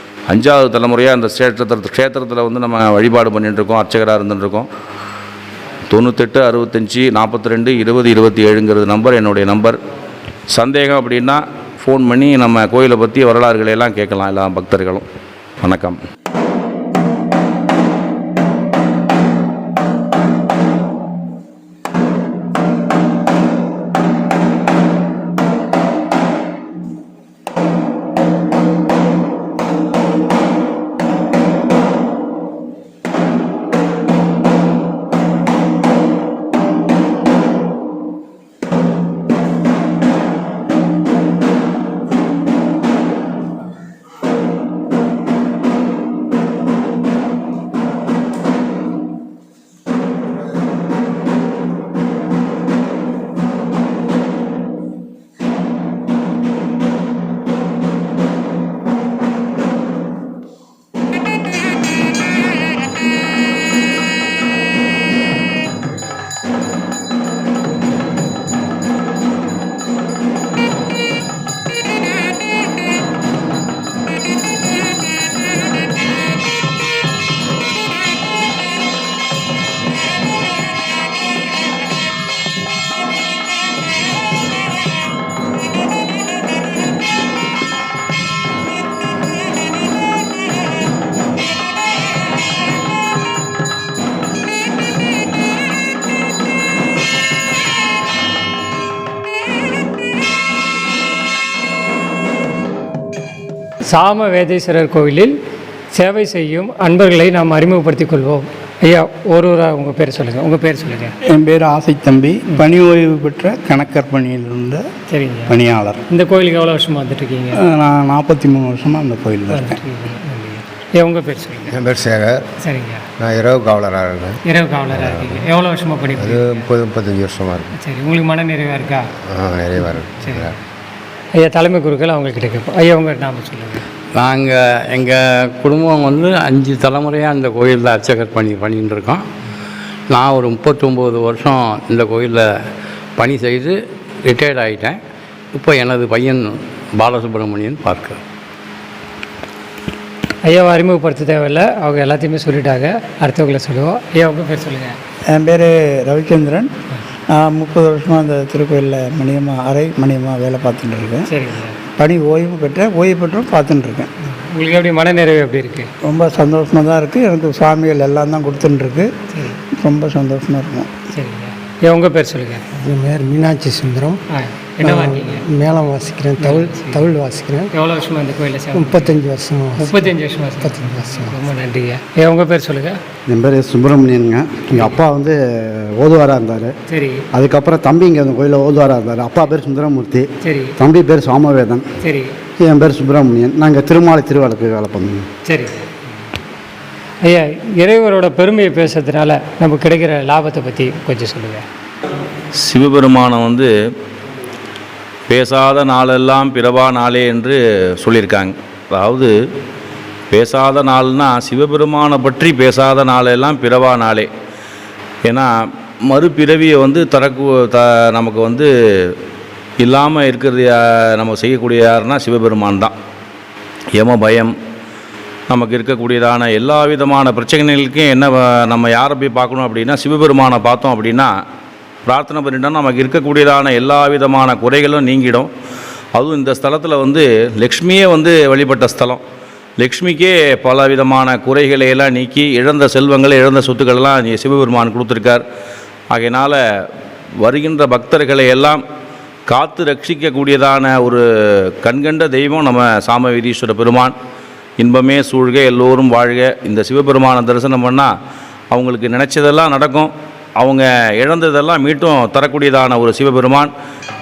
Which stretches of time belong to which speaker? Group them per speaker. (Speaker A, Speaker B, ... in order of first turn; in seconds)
Speaker A: 0.3-4.7, 5.9-9.8, 10.5-15.1, 15.6-16.0, 202.6-203.7, 205.3-209.3, 210.3-214.3, 215.2-219.2, 219.8-222.9, 223.9-224.5, 225.5-231.3, 232.1-235.5, 236.1-239.2, 239.8-245.4, 246.1-246.9, 247.4-248.8, 249.5-254.2, 254.8-258.1, 258.7-263.7
Speaker B: 103.9-105.3, 105.9-111.1, 115.1-115.5, 116.1-117.6, 119.5-121.8, 122.6-123.0, 124.5-126.7, 127.7-129.1, 129.8-130.6, 131.4-133.8, 150.4-155.0, 161.3-161.8, 164.3-165.9, 171.1-172.7, 174.3-175.4, 176.4-177.1, 177.7-179.2, 179.7-183.0, 186.9-187.2, 190.4-190.8, 192.0-192.3, 195.4-195.9, 197.2-201.6
Speaker C: 111.3-114.9, 115.5-116.0, 117.6-119.8, 155.3-156.7, 157.3-161.3, 162.0-164.1, 166.1-169.1, 169.8-170.9, 172.9-173.8, 174.8-175.3, 178.8-180.1, 180.9-181.3
Speaker D: 121.7-122.2, 123.2-123.5, 134.2-139.2, 140.1-142.4, 143.2-143.7, 144.3-144.9, 145.5-146.4, 147.0-148.2
Speaker E: 121.9-122.4, 123.3-124.3, 126.3-127.7, 129.3-130.3
Speaker F: 175.6-177.6
Speaker G: 183.3-186.7, 187.3-191.9, 192.6-195.2